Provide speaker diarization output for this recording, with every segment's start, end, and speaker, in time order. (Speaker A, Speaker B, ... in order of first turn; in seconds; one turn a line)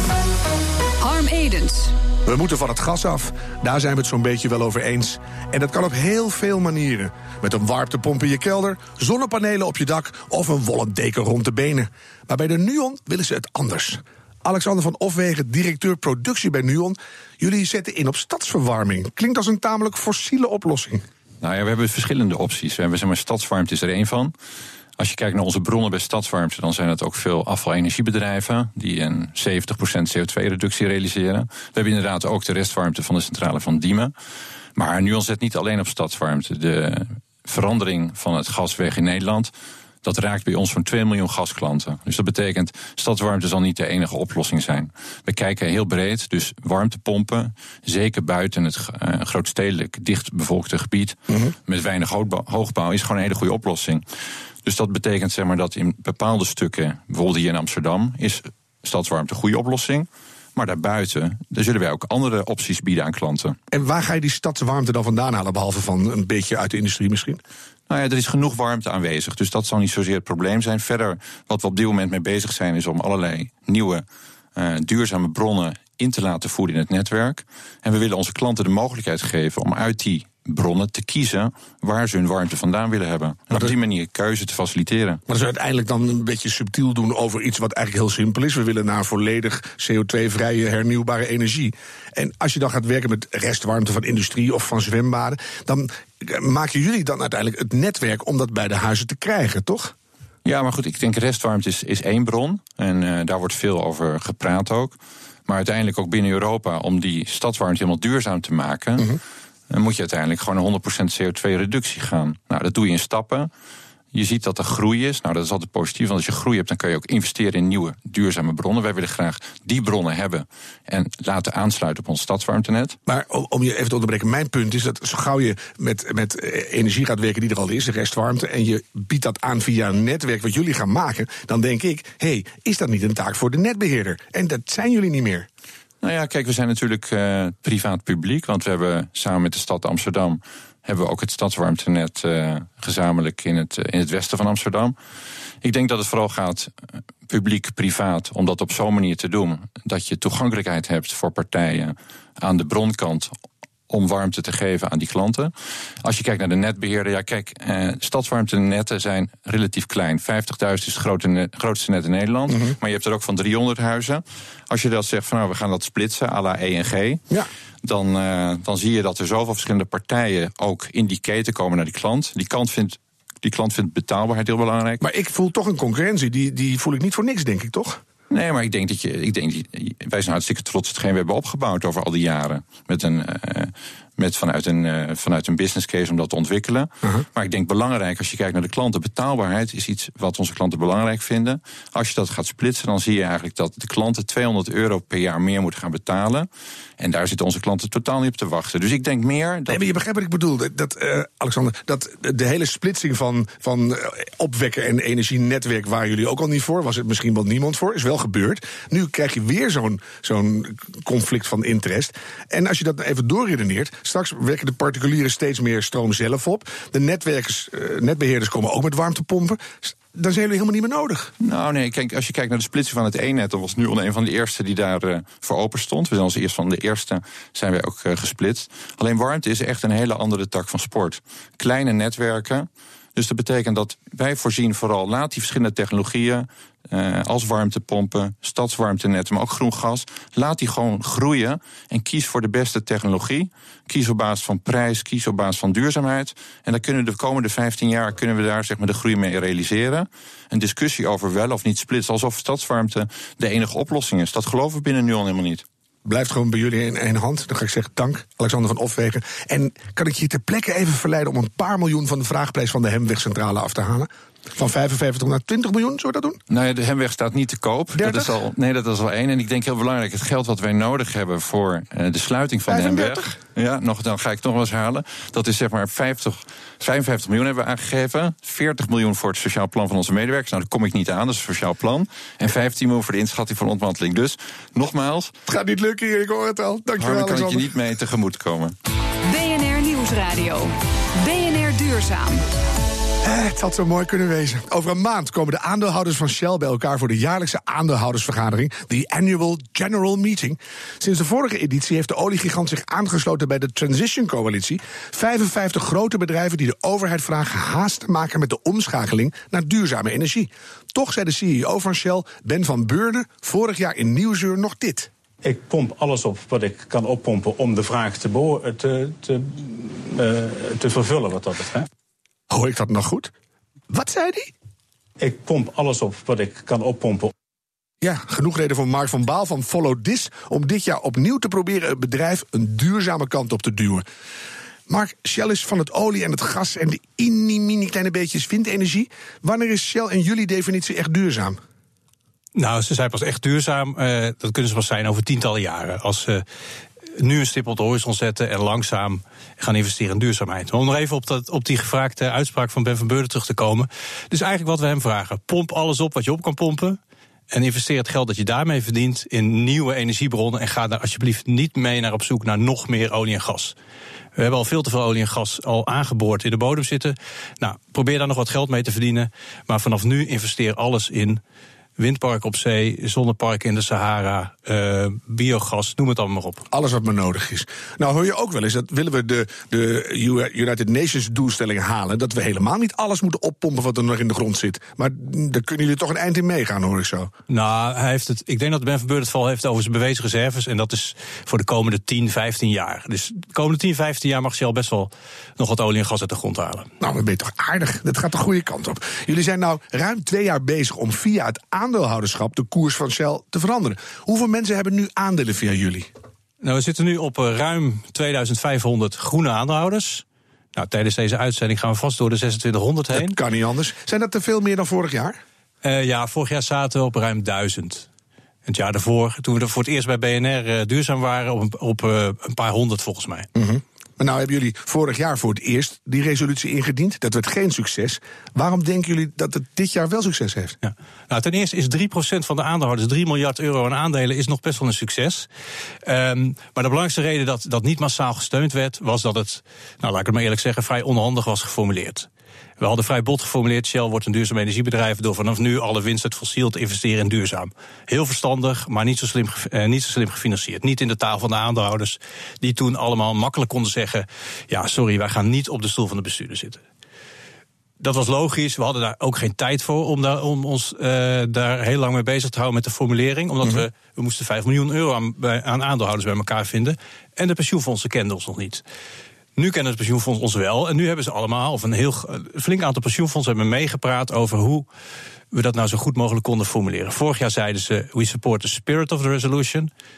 Speaker A: 1.0-1.9
Speaker B: 2.3-21.0
Speaker C: 21.4-24.3
Speaker C: 25.0-34.1
Speaker C: 34.8-39.5
Speaker C: 40.0-54.0
Speaker C: 54.6-63.6
Speaker B: 63.7-67.4
Speaker C: 67.9-74.0
Speaker C: 74.6-85.2
Speaker B: 85.3-100.0
Speaker C: 100.5-105.0
Speaker C: 105.5-109.2
Speaker C: 109.7-113.5
Speaker C: 114.1-123.0
Speaker B: 123.1-135.5
Speaker C: 136.0-144.9
Speaker C: 145.6-146.7
Speaker C: 147.3-153.3
Speaker C: 153.9-155.5
Speaker C: 156.0-167.2
Speaker B: 162.5-162.8
Speaker C: 167.8-175.0
Speaker B: 175.0-178.0
Speaker C: 178.3-196.5
Speaker C: 197.0-199.8
Speaker B: 199.7-221.3
Speaker C: 221.4-255.6
Speaker B: 256.1-266.4
Speaker C: 266.5-285.3
Speaker B: 268.0-268.3
Speaker B: 272.7-273.4
Speaker B: 285.5-287.7
Speaker C: 287.0-288.8
Speaker A: 289.2-292.4
Speaker B: 293.2-315.1
Speaker D: 315.4-321.9
Speaker B: 322.5-323.3
Speaker B: 323.9-324.5
Speaker D: 325.2-327.3
Speaker B: 328.0-334.0
Speaker B: 334.9-341.6
Speaker E: 342.6-346.4
Speaker E: 347.2-357.0
Speaker E: 357.5-363.8
Speaker E: 364.4-371.4
Speaker E: 372.0-376.7
Speaker B: 376.7-387.3
Speaker E: 387.5-396.9
Speaker B: 397.0-406.1
Speaker E: 406.6-413.4
Speaker B: 413.1-415.4
Speaker E: 415.8-418.1
Speaker E: 418.7-423.5
Speaker B: 423.6-430.8
Speaker E: 430.8-435.5
Speaker E: 436.1-442.3
Speaker E: 442.8-456.8
Speaker E: 458.0-468.8
Speaker E: 469.6-474.9
Speaker E: 475.5-479.9